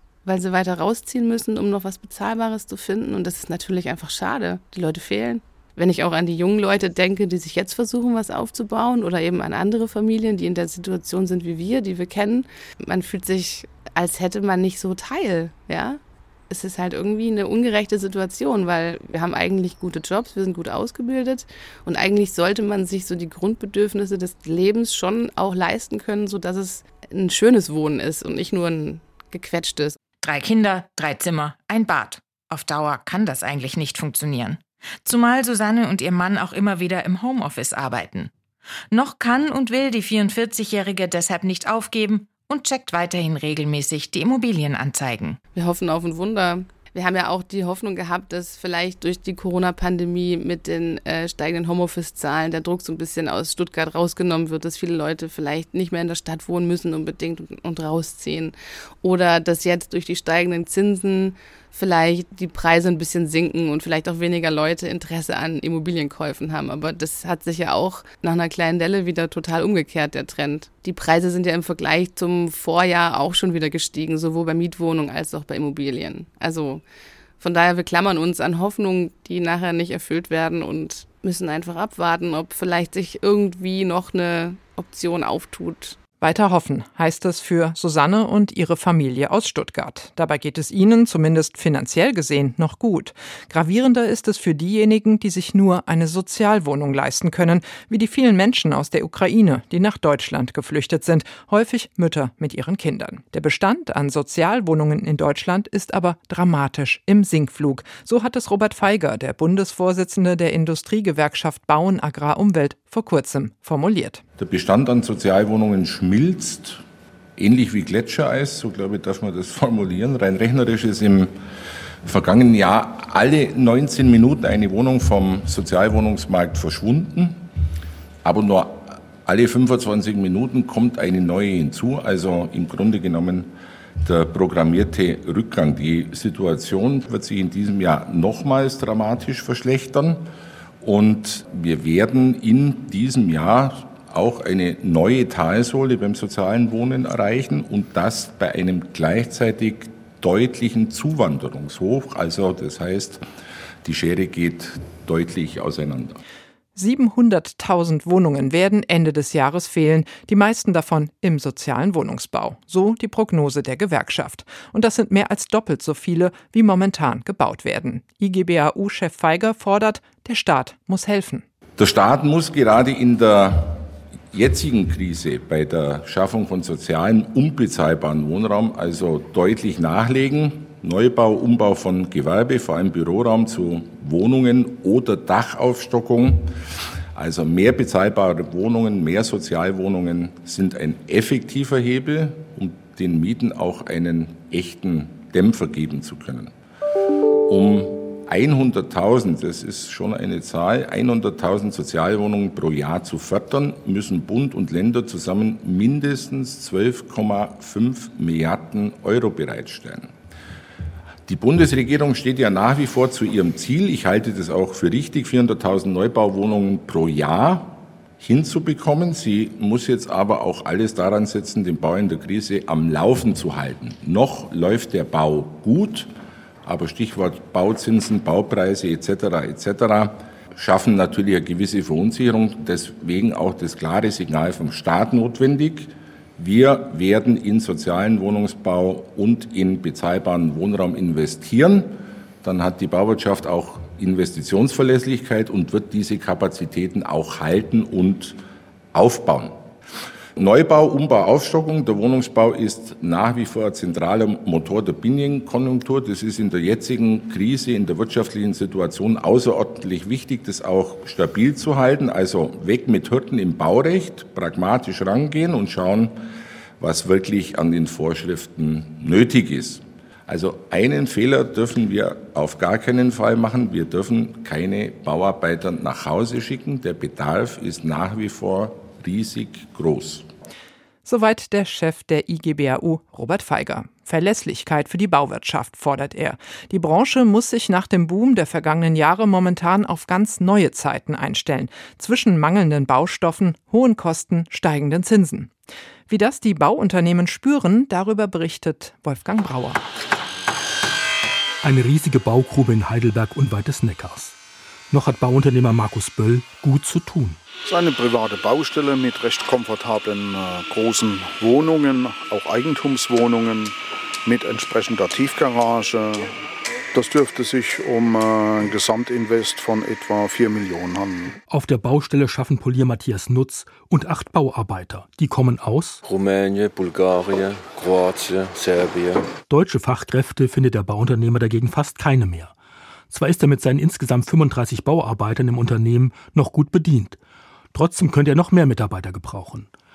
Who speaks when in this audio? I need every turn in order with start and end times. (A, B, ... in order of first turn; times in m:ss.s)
0:00.2-0:30.0 A
0:30.2-0:38.3 B
0:38.9-0:45.4 B
0:45.5-1:16.8 A
1:17.4-1:26.0 A
1:26.2-1:54.2 C
1:54.4-1:56.8 D
1:57.4-2:01.3 D
2:02.0-2:07.5 D
2:08.2-2:13.5 D
2:14.0-2:20.2 D
2:20.8-2:33.2 D
2:33.8-2:36.2 D
2:36.8-2:51.4 C
2:51.8-3:06.5 D
3:07.1-3:16.5 D
3:17.5-3:30.1 D
3:31.3-3:46.1 D
3:46.6-4:08.4 D
4:08.9-4:09.6 D
4:10.4-4:26.1 D
4:26.8-4:40.3 D
4:41.0-4:55.5 C
4:56.1-4:59.8 C
5:01.6-5:04.4 E
5:04.9-5:07.4 E
5:07.6-5:16.3 F
5:16.9-5:21.4 F
5:21.5-5:26.0 E
5:26.0-5:29.3 G
5:29.5-5:32.5 E
5:33.1-5:37.2 E
5:37.7-5:39.7 E